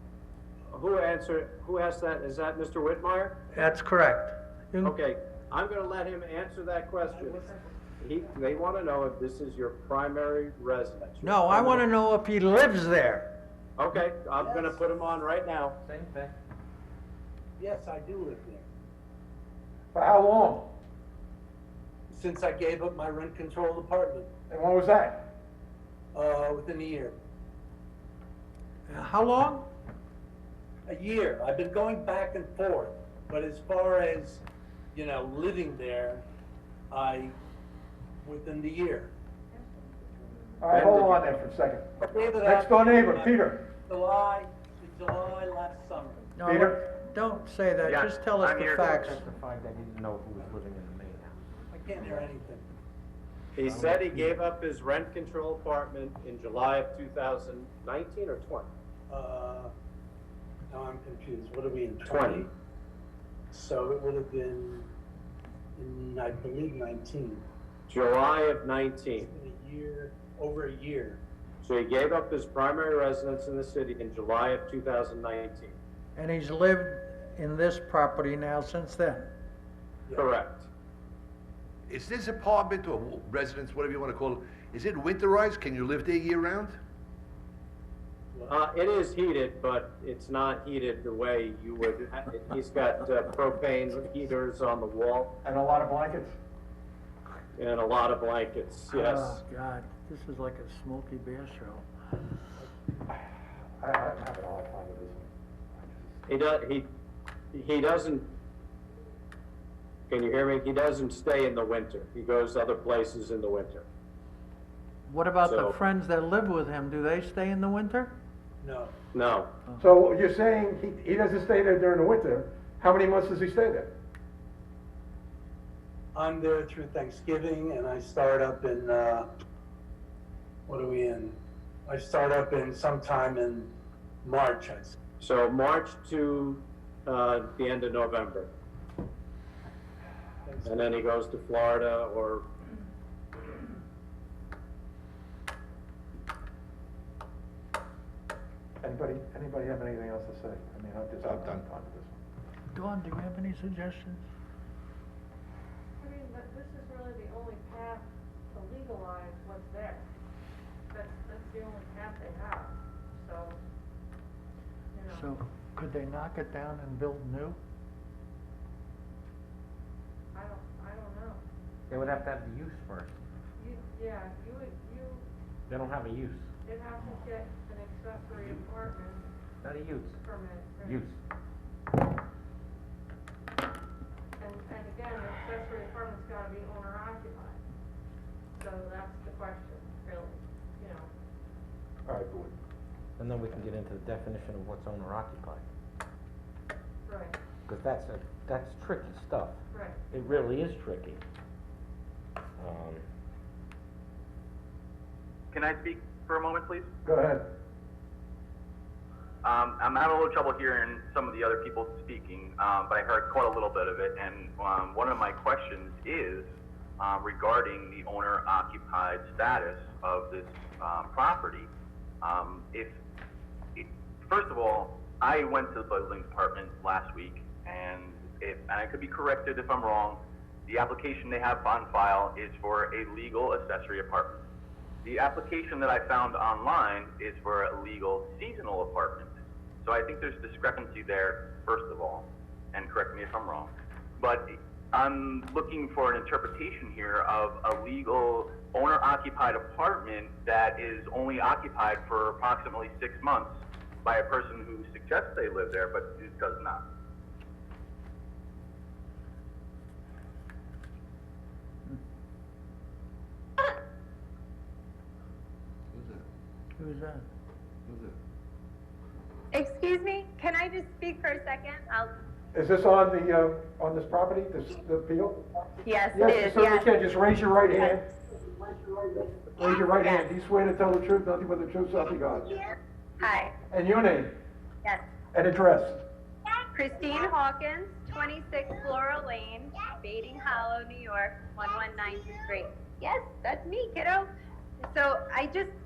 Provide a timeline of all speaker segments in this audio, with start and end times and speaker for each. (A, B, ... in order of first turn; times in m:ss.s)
0:00.7-0:03.4 A
0:03.5-0:05.0 B
0:04.8-0:11.8 A
0:07.0-0:08.4 C
0:11.2-0:13.3 B
0:13.8-0:15.8 A
0:14.4-0:14.8 D
0:15.8-0:16.3 E
0:17.6-0:18.7 D
0:19.9-0:20.7 F
0:22.1-0:24.3 D
0:24.5-0:25.3 F
0:26.1-0:27.2 D
0:28.9-0:29.7 B
0:30.9-0:34.4 D
0:34.9-0:36.2 D
0:36.9-0:37.3 D
0:38.2-0:39.1 D
0:39.5-0:40.7 C
0:40.6-0:41.9 F
0:40.7-0:41.2 A
0:42.0-0:46.3 D
0:42.4-0:43.6 F
0:46.3-0:49.2 B
0:46.4-0:46.8 F
0:48.9-0:51.4 E
0:51.7-0:52.6 D
0:53.6-0:58.7 A
0:53.6-0:54.1 E
0:59.1-0:59.7 D
1:00.7-1:02.5 D
1:02.0-1:02.5 A
1:03.5-1:04.9 D
1:05.8-1:07.4 D
1:07.9-1:09.3 A
1:09.2-1:11.2 D
1:11.6-1:15.8 A
1:16.2-1:19.3 B
1:20.1-1:20.7 A
1:21.9-1:26.8 G
1:28.5-1:35.3 A
1:35.4-1:36.4 F
1:37.6-1:39.4 A
1:38.9-1:41.8 B
1:43.1-1:46.2 F
1:46.3-1:46.9 A
1:47.5-1:48.3 A
1:50.1-1:53.8 A
1:55.1-1:58.1 B
1:55.4-1:55.7 A
1:58.6-1:59.0 D
1:59.1-1:59.5 A
1:59.8-2:03.9 F
2:06.2-2:09.3 D
2:10.7-2:13.7 D
2:14.2-2:15.0 D
2:15.2-2:18.5 A
2:20.4-2:20.9 D
2:20.6-2:22.4 A
2:28.8-2:32.2 F
2:31.2-2:31.6 G
2:32.7-2:34.2 B
2:36.0-2:40.0 C
2:40.9-2:43.6 C
2:44.9-2:45.3 C
2:45.1-2:47.6 B
2:50.3-2:51.4 C
2:51.9-2:53.2 E
2:53.6-2:55.2 C
2:55.7-2:56.5 E
2:56.6-2:59.3 C
2:59.6-3:00.2 E
3:00.2-3:01.1 C
3:00.8-3:01.2 E
3:04.4-3:07.6 C
3:08.6-3:11.1 C
3:12.0-3:12.6 F
3:13.2-3:15.6 E
3:17.1-3:17.4 C
3:17.7-3:19.6 E
3:19.7-3:20.0 C
3:20.1-3:21.2 E
3:22.6-3:23.0 E
3:25.5-3:26.9 H
3:27.0-3:27.5 F
3:29.5-3:36.5 H
3:37.0-3:41.7 H
3:42.2-3:42.9 H
3:43.8-3:54.4 H
3:55.0-3:59.3 H
3:59.8-4:16.8 H
4:25.9-4:26.2 G
4:26.8-4:27.2 B
4:27.8-4:28.2 G
4:29.5-4:32.1 I
4:32.5-4:35.4 F
4:35.8-4:36.8 I
4:36.1-4:38.0 F
4:39.6-4:42.6 F
4:40.0-4:40.2 I
4:43.2-4:43.5 I
4:43.7-4:44.3 F
4:45.3-4:46.0 F
4:46.8-4:54.3 I
4:54.9-4:55.7 I